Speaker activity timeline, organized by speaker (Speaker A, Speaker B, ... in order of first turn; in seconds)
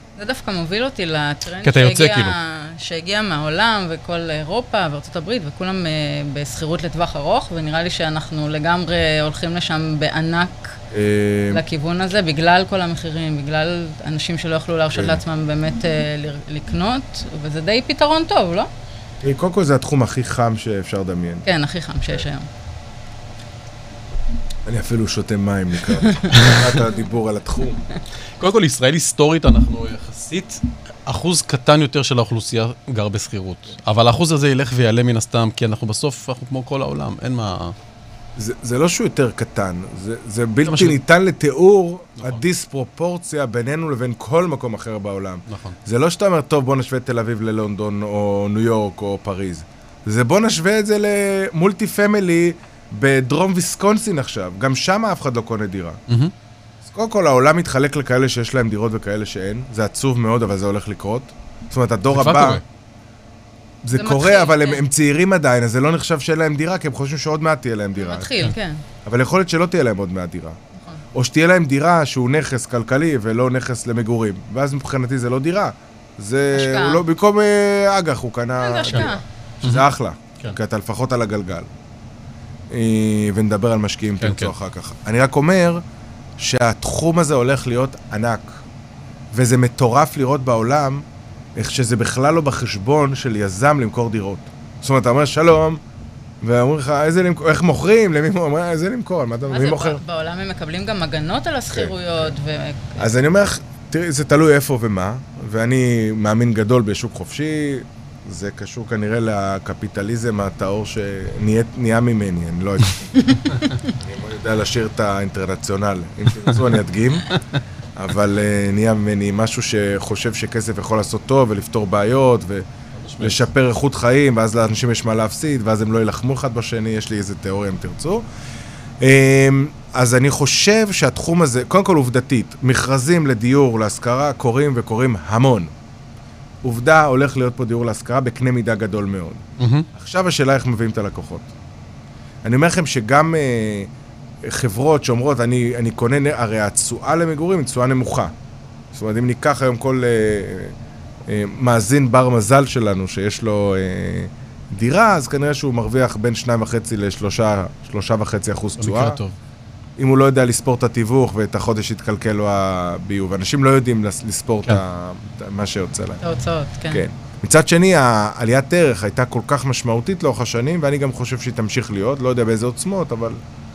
Speaker A: 0.2-10.8, 11.5-18.7, 21.4-22.5, 64.0-64.8, 68.0-68.8, 76.5-77.0, 78.6-79.2, 99.5-103.1, 113.3-113.5, 166.2-167.0
Speaker B: 1.6-2.3, 28.4-37.7, 40.6-41.0, 45.5-45.8, 62.1-62.6, 84.2-84.5, 123.0-123.5, 139.6-139.9, 158.8-159.3
Speaker C: 10.9-11.6, 14.9-15.2, 19.2-21.4, 24.6-27.8, 38.4-56.0, 56.8-62.6, 63.8-68.5, 69.0-70.6, 71.1-81.7, 82.7-85.8, 86.4-88.6, 89.3-95.8, 96.4-100.0, 103.0-113.2, 114.0-117.3, 118.0-122.7, 123.2-128.2, 129.0-135.7, 136.6-139.4, 139.9-141.5, 142.4-143.9, 144.4-148.3, 148.9-150.8, 151.3-159.2, 160.0-166.2, 166.9-173.4